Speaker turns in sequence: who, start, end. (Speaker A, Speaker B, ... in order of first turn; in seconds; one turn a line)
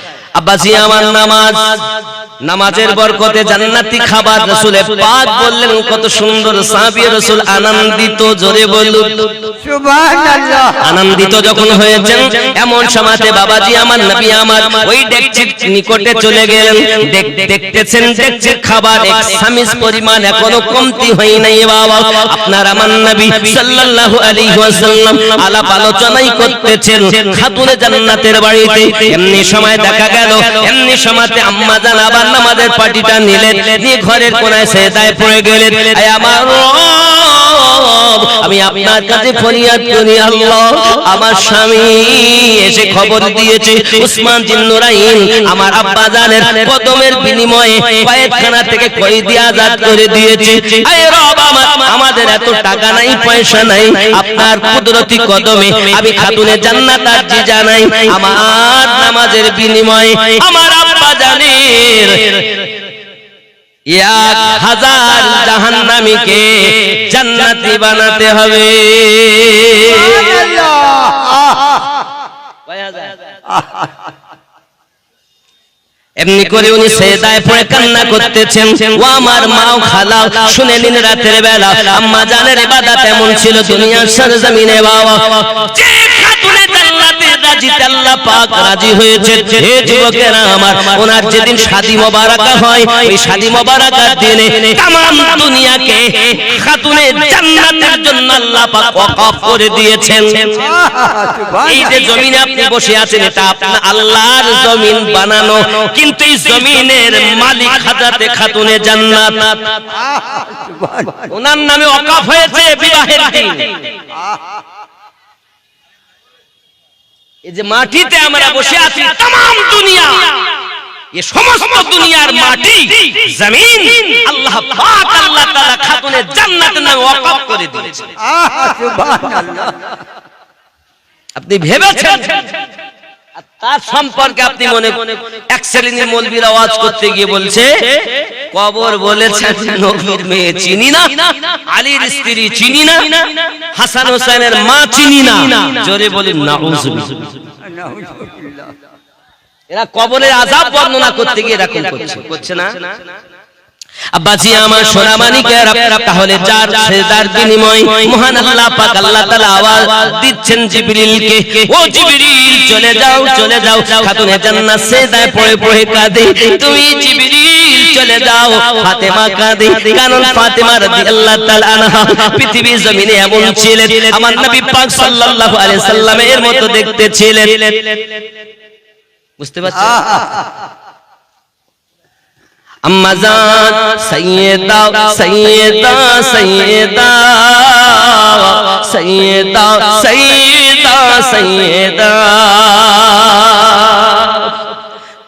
Speaker A: 0.3-9.5
Speaker B: 9.6-10.8
Speaker A: 10.8-62.7
Speaker A: 63.9-70.4
Speaker B: 69.9-72.0
Speaker A: 72.7-73.1
Speaker B: 73.5-73.9
Speaker A: 76.2-100.6
Speaker B: 100.6-101.9
Speaker A: 101.6-109.8
Speaker B: 110.0-111.3
Speaker A: 111.3-113.9
Speaker A: 117.4-120.6
Speaker A: 121.1-128.1
Speaker B: 128.2-129.9
Speaker A: 131.3-132.5
Speaker A: 133.4-147.4
Speaker B: 147.6-148.7
Speaker A: 149.7-152.9
Speaker A: 154.1-178.2
Speaker A: 179.4-180.1
Speaker B: 179.8-180.5
Speaker A: 182.8-194.7